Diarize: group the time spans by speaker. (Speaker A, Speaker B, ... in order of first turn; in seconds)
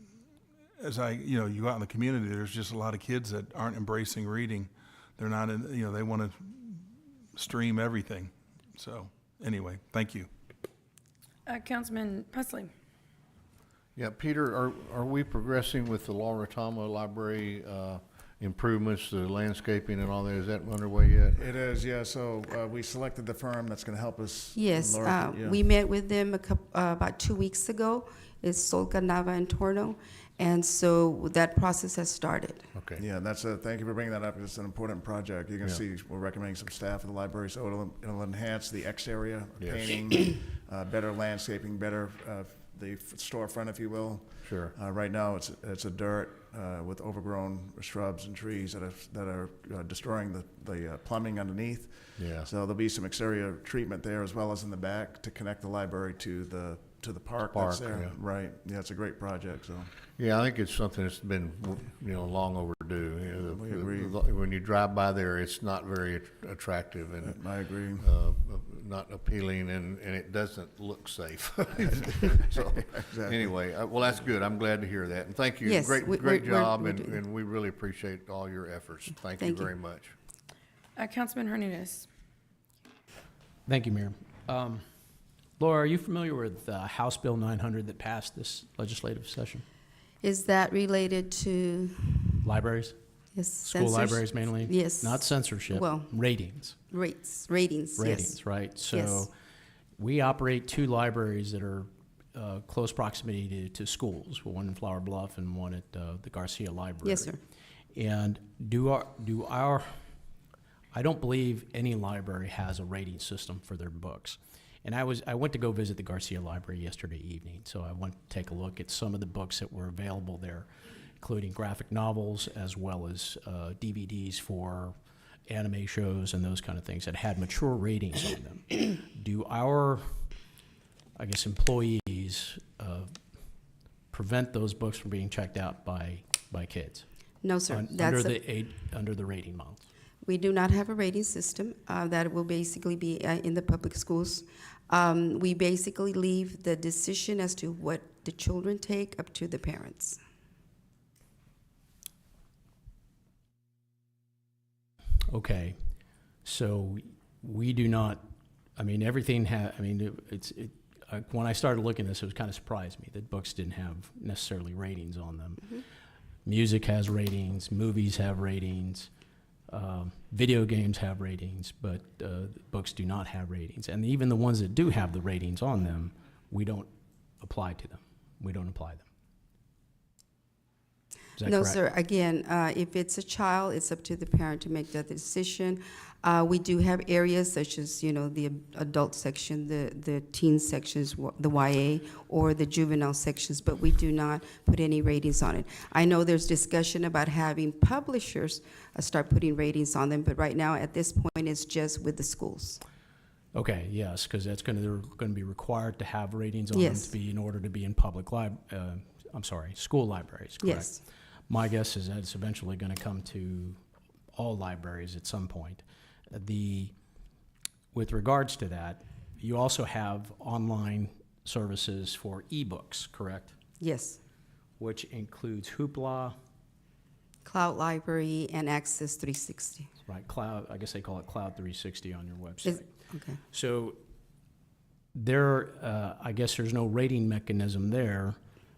Speaker A: 0.8-10.3
Speaker B: 11.5-12.7, 81.0-82.1
Speaker C: 14.0-21.4, 32.8-33.0, 39.6-39.9, 44.4-44.7, 52.2-52.5, 57.5-58.2, 60.2-80.2
Speaker D: 21.4-25.6, 33.0-59.9, 63.5-64.2, 67.2-68.1, 72.4-73.6
Speaker E: 24.6-32.7, 75.6-77.2, 79.4-79.7, 90.2-92.5, 93.3-96.1, 96.9-99.3, 107.0-107.4, 137.4-138.4, 140.2-150.2, 181.4-202.8, 206.7-207.2, 210.6-211.0, 223.8-224.2, 227.4-229.9, 232.7-233.4
Speaker F: 83.7-84.8, 85.6-89.7, 92.4-93.0, 93.6-96.8, 98.0-99.3, 100.0-107.3, 107.9-109.9, 110.9-120.7, 121.2-125.0, 125.5-130.0, 131.2-133.1, 134.1-137.1, 137.7-139.9, 155.3-155.8, 156.4-158.2, 158.8-165.8, 166.4-169.1, 169.7-176.9, 177.4-179.1, 181.4-181.8, 203.5-213.8, 214.3-216.9, 217.9-223.5, 224.8-226.4, 230.1-232.9, 233.5-234.0, 235.2-238.4